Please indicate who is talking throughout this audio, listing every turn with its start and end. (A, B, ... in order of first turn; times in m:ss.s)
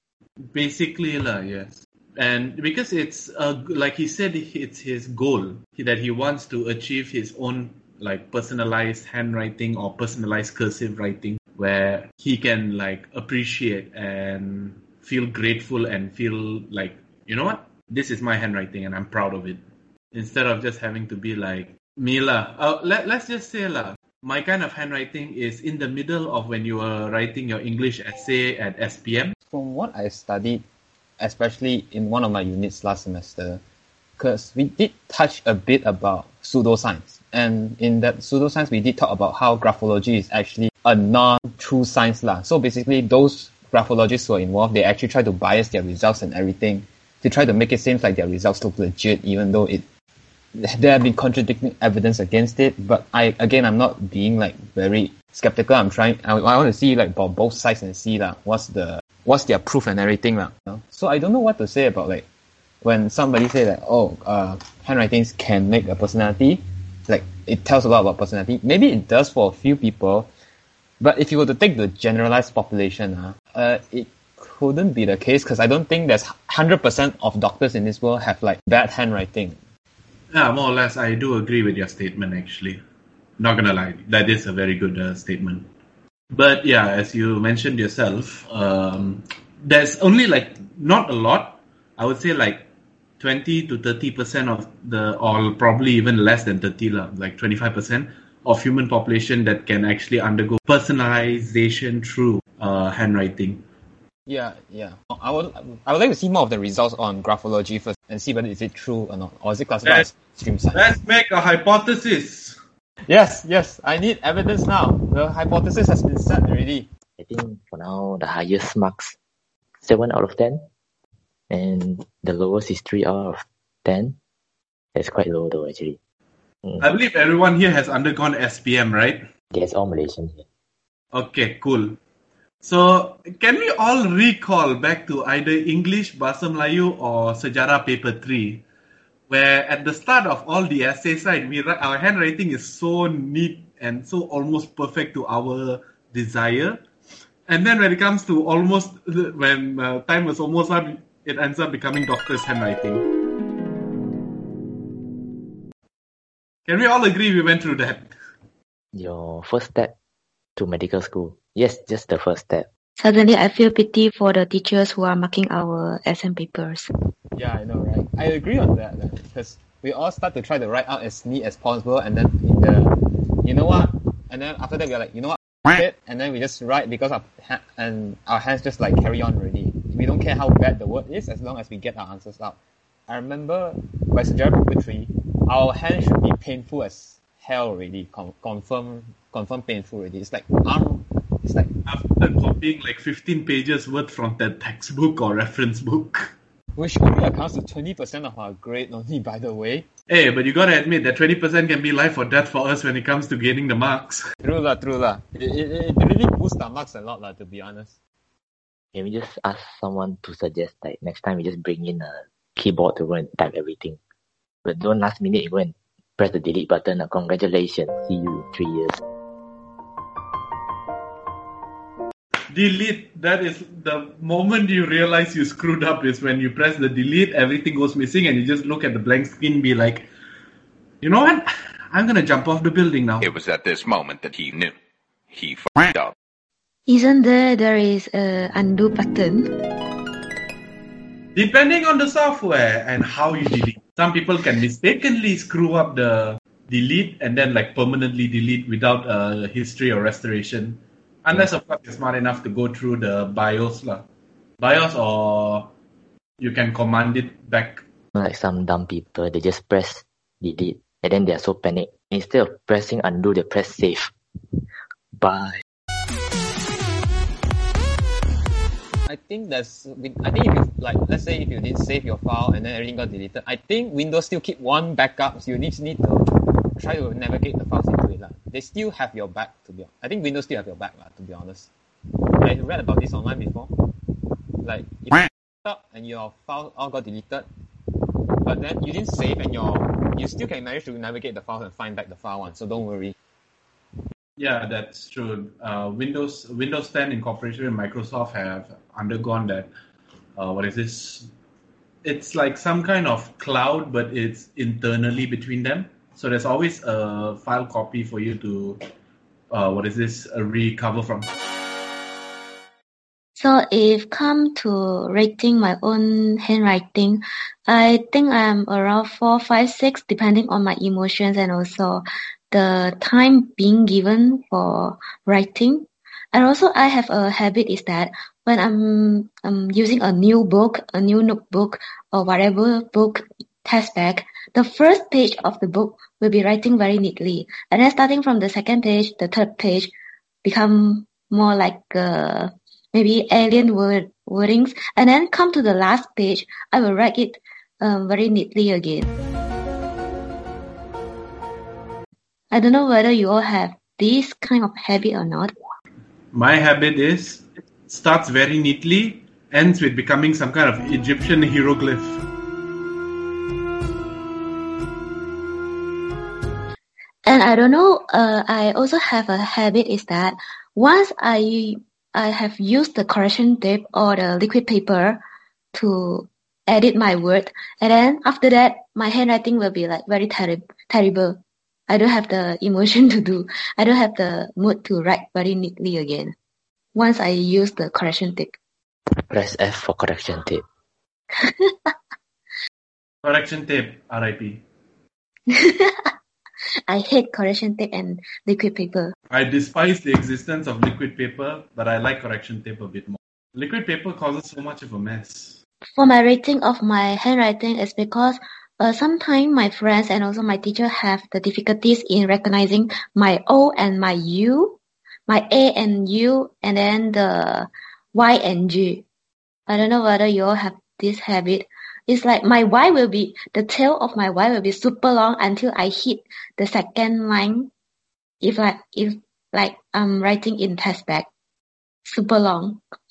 0:00.4-0:29.4 A
0:29.5-0:30.6 B
0:31.2-0:33.6 B
0:34.2-0:49.8 B
0:50.5-1:02.2 B
1:02.8-1:10.3 B
1:11.0-1:19.6 B
1:20.3-1:22.8 A
1:23.4-1:25.7 A
1:26.3-1:32.7 A
1:33.2-1:43.6 A
1:44.3-1:50.9 B
1:50.7-1:52.6 A
1:53.0-1:56.9 B
1:57.2-1:59.2 C
1:59.8-2:00.6 C
2:01.5-2:04.2 C
2:05.0-2:06.0 C
2:06.8-2:09.3 A
2:09.5-2:10.4 C
2:11.1-2:12.0 A
2:12.6-2:18.6 A
2:19.3-2:26.8 A
2:27.5-2:33.0 A
2:36.7-2:38.1 A
2:38.9-2:39.9 C
2:40.6-2:42.7 C
2:43.0-2:46.9 D
2:47.4-3:11.7 B
3:11.9-3:16.3 A
3:16.8-3:19.9 B
3:20.1-3:24.3 A
3:24.4-3:28.0 B
3:28.9-3:34.0 C
3:34.6-3:39.0 C
3:42.5-3:50.1 A
3:51.0-3:53.3 A
3:53.2-3:54.8 E
3:55.3-3:56.1 E
3:56.9-3:59.5 D
4:01.4-4:14.0 A
4:14.6-4:15.7 A
4:16.4-4:17.8 A
4:18.1-4:24.5 C
4:25.2-4:25.6 C
4:29.0-4:41.7 B
4:42.3-4:47.5 B
4:48.4-4:53.2 B
4:54.4-4:59.7 A
5:00.4-5:01.3 A
5:02.0-5:08.8 A
5:09.5-5:11.3 A
5:13.4-5:39.9 D
5:40.4-5:49.1 D
5:52.5-5:55.5 D
5:56.3-6:02.2 A
6:07.3-6:15.2 D
6:15.7-6:26.4 D
6:27.0-6:28.6 D
6:29.1-6:30.6 C
6:31.4-6:31.9 D
6:33.2-6:34.6 A
6:35.5-6:36.1 D
6:36.9-6:39.1 D
6:39.3-6:45.6 A
6:45.9-6:54.8 D
6:55.3-6:59.0 D
6:59.7-7:07.7 D
7:08.4-7:11.3 D
7:12.1-7:12.8 D